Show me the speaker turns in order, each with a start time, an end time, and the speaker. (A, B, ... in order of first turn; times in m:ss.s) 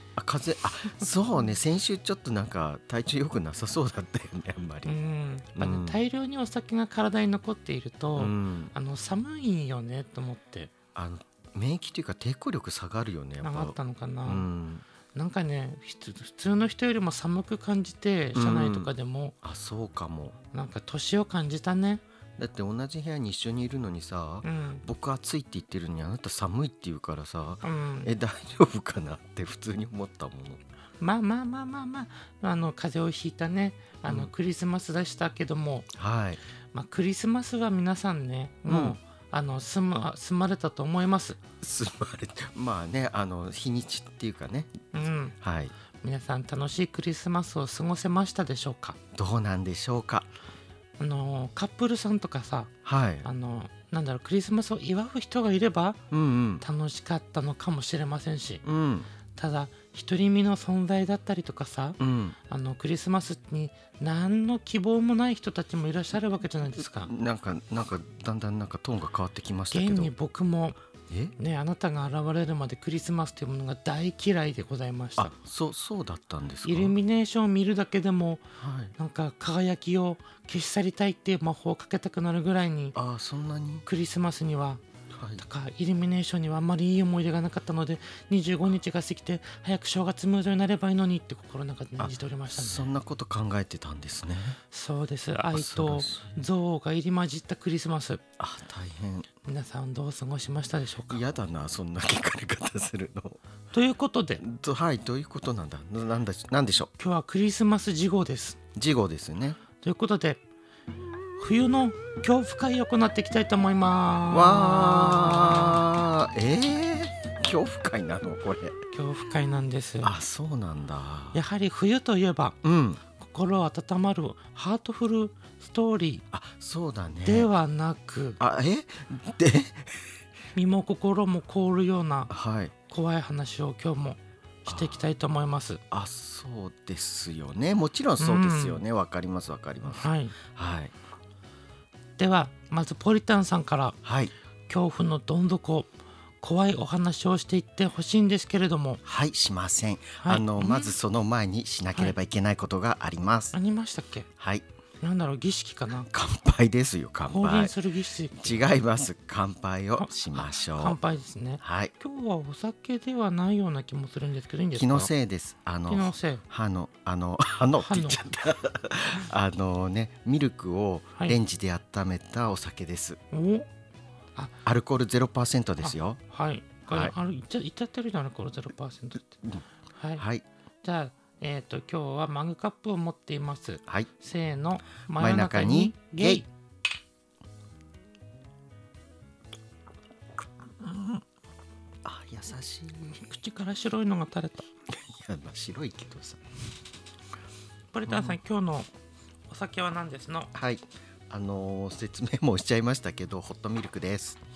0:00.2-0:05.0 A
0:04.8-0:10.7 B
0:05.5-0:06.0 A
0:08.2-0:08.7 A
0:11.0-0:14.8 A
0:13.4-0:14.5 B
0:15.1-0:19.4 B
0:18.4-0:18.9 A
0:19.4-0:20.4 A
0:20.5-0:22.0 B
0:22.4-0:30.6 A
0:24.4-0:24.8 B
0:27.6-0:28.1 B
0:31.0-0:35.9 B
0:34.0-0:34.3 A
0:35.9-0:36.4 A
0:36.7-0:41.4 B
0:38.7-0:39.0 A
0:41.6-0:44.9 A
0:44.9-0:45.4 B
0:45.4-0:45.8 A
0:46.0-0:49.0 B
0:49.1-0:50.3 A
0:51.0-0:52.7 B
0:52.8-0:53.3 A
0:53.2-0:56.0 B
0:56.1-0:56.6 A
0:56.6-0:58.6 B
0:58.6-0:59.1 A
0:59.4-1:07.1 B
1:02.0-1:02.4 A
1:06.8-1:10.1 A
1:09.7-1:10.8 B
1:11.1-1:11.4 A
1:11.4-1:15.3 B
1:15.2-1:17.0 A
1:16.6-1:18.4 B
1:18.6-1:19.0 A
1:19.0-1:23.0 B
1:23.0-1:23.8 A
1:23.8-1:24.8 B
1:25.1-1:25.4 A
1:25.4-1:32.9 B
1:32.0-1:34.6 A
1:34.7-1:38.2 B
1:35.5-1:36.4 A
1:38.4-1:39.3 A
1:39.4-1:41.2 B
1:41.1-1:43.4 A
1:43.7-1:44.4 B
1:44.4-1:46.9 A
1:47.0-1:48.6 B
1:48.8-1:49.6 A
1:49.8-1:50.4 B
1:51.4-1:55.8 B
1:54.3-1:58.8 A
1:58.9-2:00.1 B
2:00.0-2:01.4 A
2:01.3-2:02.6 B
2:02.6-2:03.0 A
2:03.1-2:06.2 B
2:06.3-2:07.5 A
2:07.2-2:08.4 B
2:08.4-2:10.2 A
2:10.6-2:12.3 B
2:12.3-2:12.8 A
2:12.9-2:15.8 B
2:14.7-2:15.0 A
2:15.9-2:20.9 A
2:18.2-2:18.8 B
2:19.9-2:20.4 B
2:22.2-2:24.0 B
2:24.0-2:24.3 A
2:24.7-2:25.9 B
2:26.4-2:29.0 B
2:29.0-2:33.6 A
2:30.2-2:31.0 B
2:33.5-2:34.3 B
2:34.4-2:34.6 A
2:35.0-2:36.1 B
2:36.1-2:37.8 A
2:37.3-2:38.6 B
2:38.3-2:41.0 A
2:40.0-2:45.1 B
2:41.6-2:41.9 A
2:44.7-2:53.2 A
2:45.9-2:46.4 B
2:47.8-2:48.2 B
2:53.3-2:53.7 B
2:54.6-2:56.2 A
2:55.8-2:59.4 B
2:56.9-2:57.1 A
3:00.0-3:00.2 B
3:00.2-3:00.4 A
3:00.8-3:06.5 B
3:05.2-3:06.4 A
3:12.0-3:13.2 A
3:13.1-3:14.7 B
3:14.9-3:16.4 A
3:17.9-3:18.9 B
3:18.1-3:18.4 A
3:19.5-3:20.5 B
3:20.5-3:24.4 A